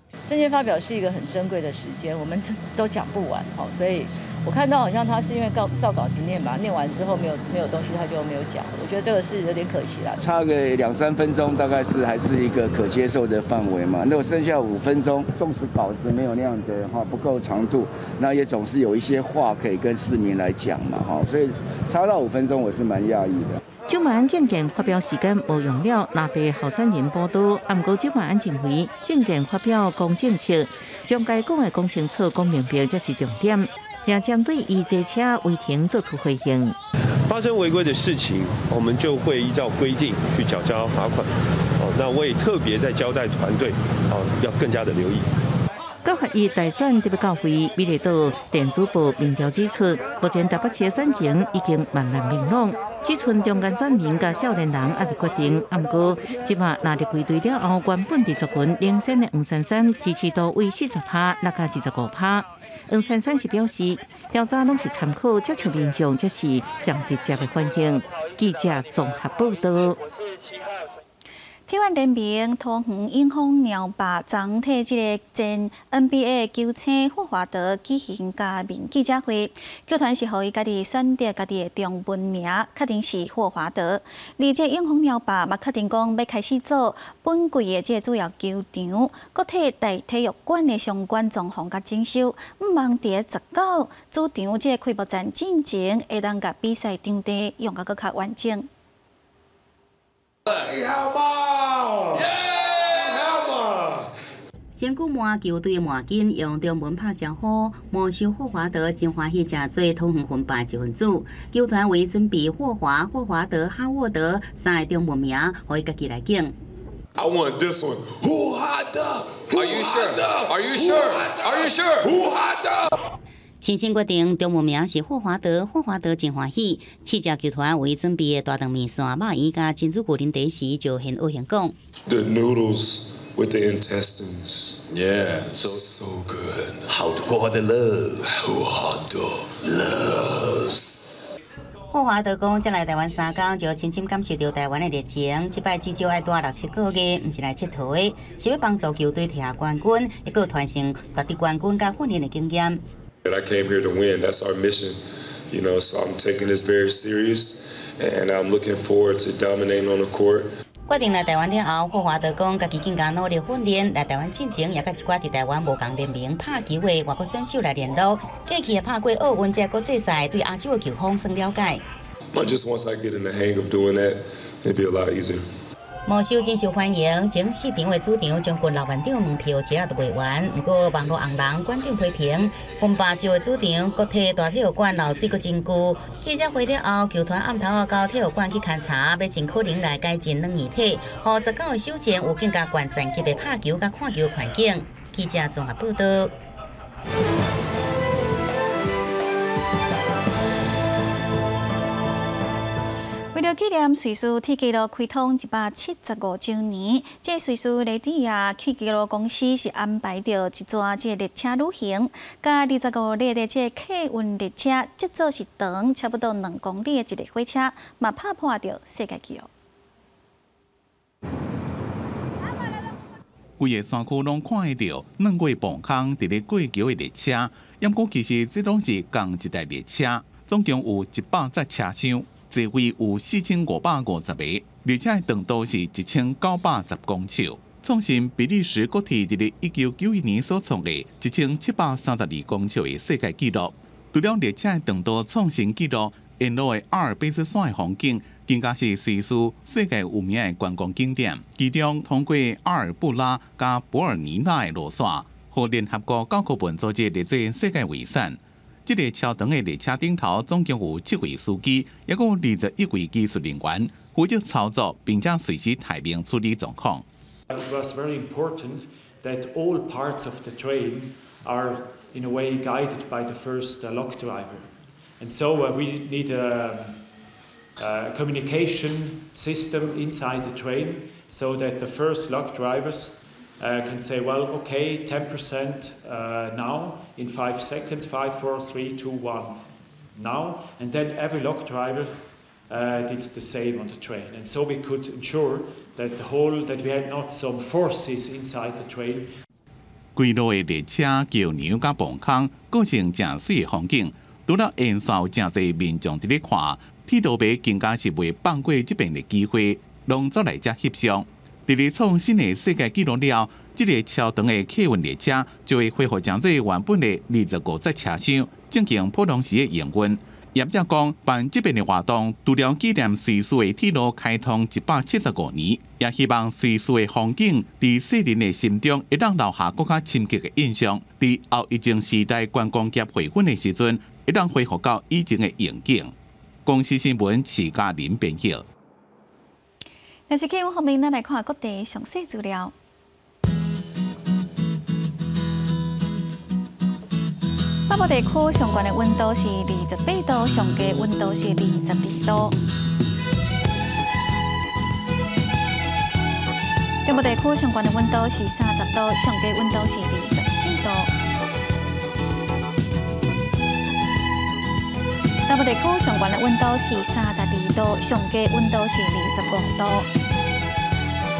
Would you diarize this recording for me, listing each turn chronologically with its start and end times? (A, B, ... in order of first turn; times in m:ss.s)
0:00.3-0:10.2 A
0:10.2-0:23.6 B
0:23.9-0:36.8 C
0:37.2-0:45.3 D
0:46.0-1:10.0 C
1:11.7-1:38.7 E
1:40.6-1:42.2 F
1:44.8-1:56.6 G
1:57.2-2:02.9 F
1:59.5-2:02.0 H
2:03.6-2:11.8 G
2:12.1-2:14.8 F
2:14.9-2:15.8 H
2:15.5-2:17.0 F
2:16.9-2:18.3 H
2:18.4-2:19.0 F
2:18.9-2:20.7 H
2:21.9-2:32.8 G
2:33.2-2:40.5 F
2:40.9-2:51.8 G
2:52.3-2:55.5 F
2:56.1-3:16.4 G
3:23.3-3:39.5 E
3:43.6-4:27.0 I
4:27.5-4:59.3 J
5:00.2-5:36.1 I
5:36.7-5:38.6 I
5:40.3-5:42.7 E
5:47.9-5:52.6 E
5:57.0-6:01.1 E
6:05.5-6:10.1 E